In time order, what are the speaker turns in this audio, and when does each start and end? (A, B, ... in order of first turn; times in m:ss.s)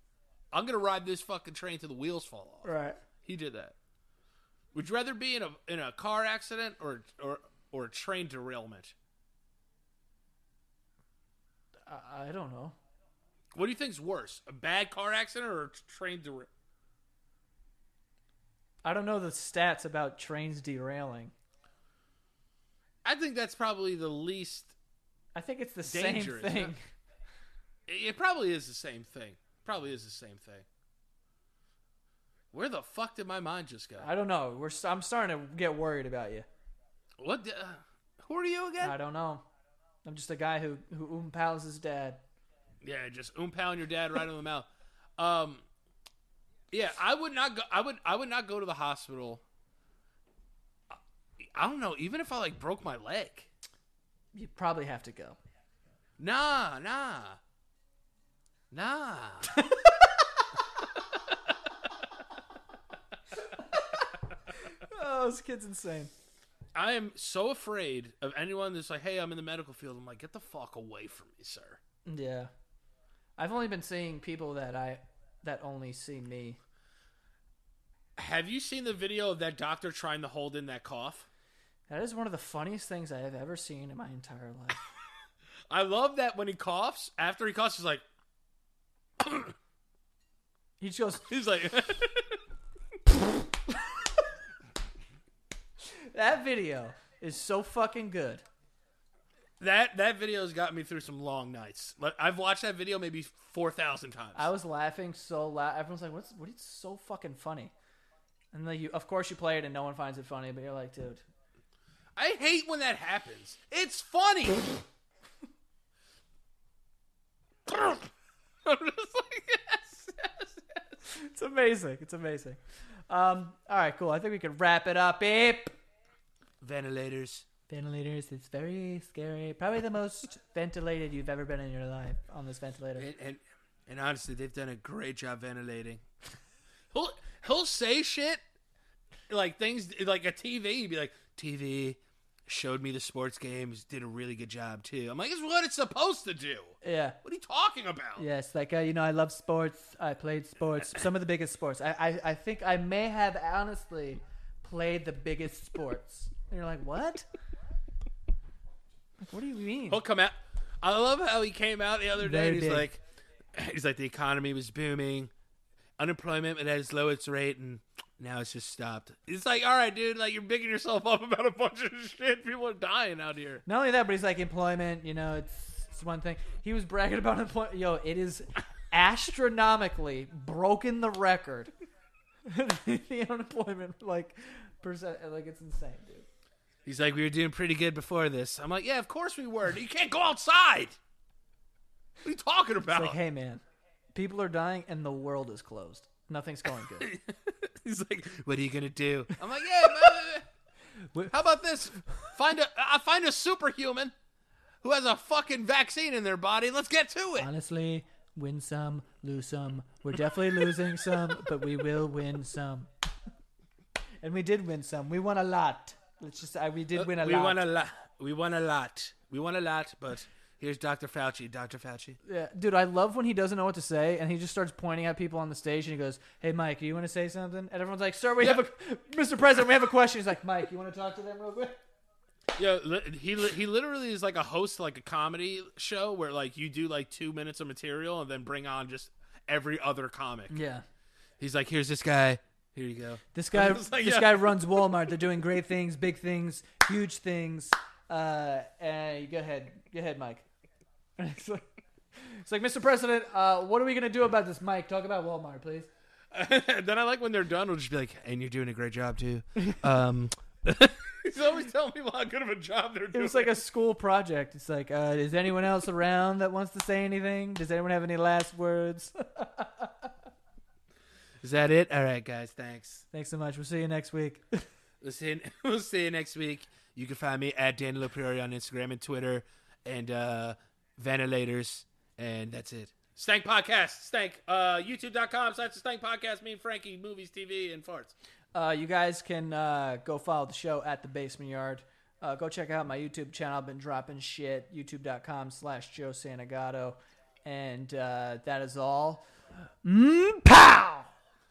0:00.5-0:03.8 A
0:02.6-0:03.0 B
0:04.7-0:08.9 A
0:11.9-0:12.8 B
0:13.5-0:16.5 A
0:18.8-0:21.3 B
0:23.0-0:24.8 A
0:25.4-0:26.8 B
0:25.8-0:26.7 A
0:27.9-0:30.7 A
0:32.5-0:34.1 A
0:34.0-0:36.5 B
0:37.2-0:39.0 A
0:38.8-0:39.4 B
0:40.0-0:42.2 B
0:42.8-0:45.6 A
0:46.7-0:49.4 A
0:51.4-0:53.5 A
0:54.3-0:55.4 B
0:56.2-0:57.4 A
0:58.7-0:59.6 A
0:59.5-1:00.1 B
1:03.5-1:06.1 B
1:06.8-1:11.8 A
1:12.1-1:12.5 B
1:13.4-1:16.6 B
1:18.2-1:21.3 A
1:21.9-1:24.8 B
1:25.7-1:28.0 A
1:29.2-1:29.6 A
1:30.8-1:31.3 B
1:31.3-1:32.4 A
1:33.7-1:34.2 B
1:35.8-1:38.4 B
1:39.6-1:44.5 A
1:44.4-1:47.7 B
1:48.5-1:51.2 B
1:52.2-1:54.8 A
1:57.7-1:58.1 A
1:58.6-2:01.0 A
2:01.1-2:05.7 B
2:06.6-2:07.4 A
2:07.7-2:13.1 B
2:13.0-2:16.0 A
2:16.9-2:18.4 A
2:19.3-2:28.3 A
2:26.8-2:27.2 B
2:28.2-2:37.3 B
2:39.2-2:40.0 B
2:39.9-2:43.0 A
2:42.2-2:42.9 B
2:43.5-2:45.3 A
2:46.0-2:53.6 A
2:53.7-3:01.7 B
3:02.5-3:06.3 B
3:06.8-3:11.0 A
3:12.2-3:13.2 A
3:12.9-3:13.6 B
3:14.2-3:17.1 B
3:17.0-3:20.5 A
3:21.3-3:24.1 A
3:24.8-3:27.5 A
3:27.4-3:32.9 B
3:30.2-3:31.5 A
3:34.2-3:37.6 B
3:36.9-3:42.2 A
3:42.2-3:51.8 B
3:52.6-4:00.6 A
4:00.5-4:00.8 B
4:01.4-4:05.1 A
4:03.3-4:10.4 B
4:11.2-4:11.6 B
4:12.2-4:15.9 B
4:16.3-4:23.6 A
4:19.6-4:19.8 B
4:23.1-4:30.1 B
4:31.4-4:33.0 A
4:33.1-4:34.6 B
4:35.0-4:48.1 A
4:48.6-4:59.2 B
4:59.8-5:01.1 B